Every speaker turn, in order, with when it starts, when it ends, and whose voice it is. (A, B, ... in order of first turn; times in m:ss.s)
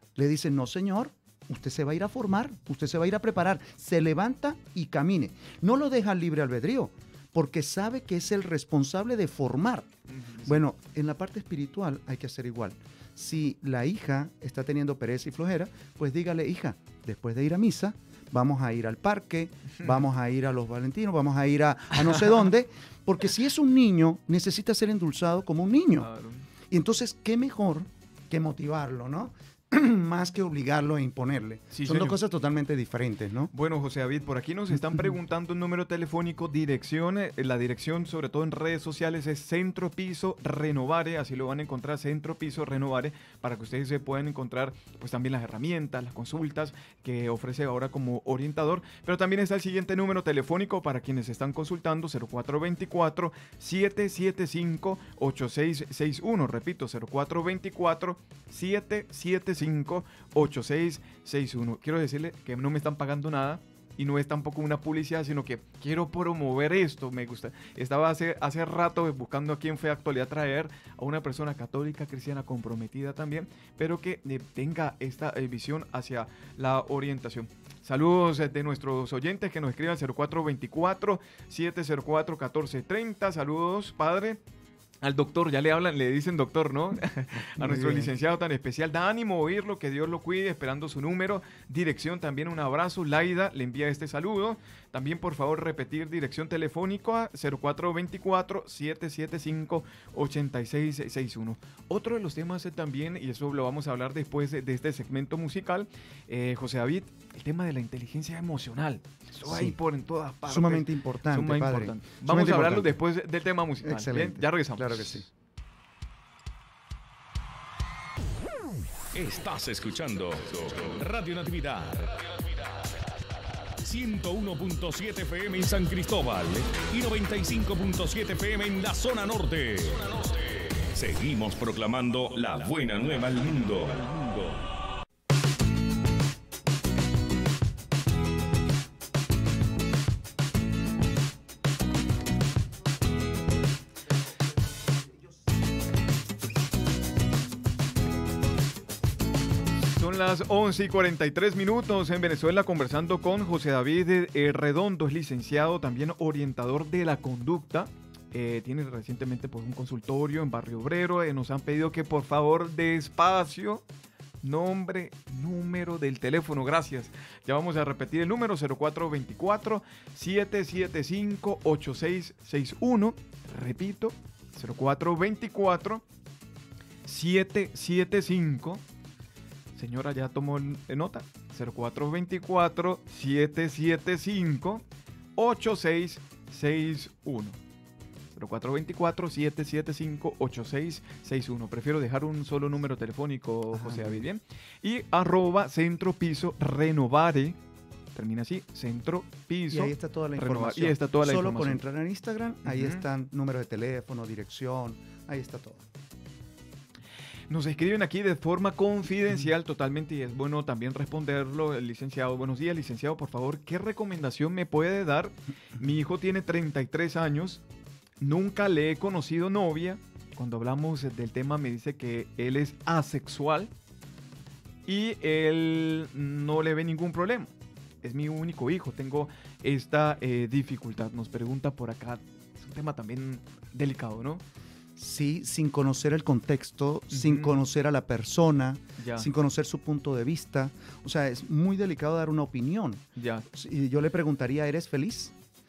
0:00.2-0:09.9 A
0:10.1-0:10.6 B
0:10.4-0:26.1 A
0:26.0-0:26.5 B
0:26.7-0:33.5 A
0:31.7-0:32.2 B
0:33.5-1:24.4 B
1:25.0-1:55.2 B
1:27.5-1:28.1 A
1:49.5-1:49.8 A
1:50.4-1:53.0 A
1:53.8-1:55.3 A
1:59.1-2:02.3 C
2:03.8-2:14.6 C
2:29.9-2:43.8 B
2:44.4-2:56.0 B
2:57.0-2:58.8 B
2:59.8-3:04.8 B
3:05.4-3:07.6 B
3:08.3-3:17.6 B
3:13.7-3:14.2 A
3:18.1-3:21.8 B
3:19.7-3:25.9 A
3:22.7-3:23.0 B
3:27.5-3:37.6 B
3:38.2-3:43.7 B
3:44.9-3:54.4 B
3:55.0-4:05.4 A
3:57.1-3:57.6 B
3:59.0-3:59.3 B
4:03.2-4:03.5 B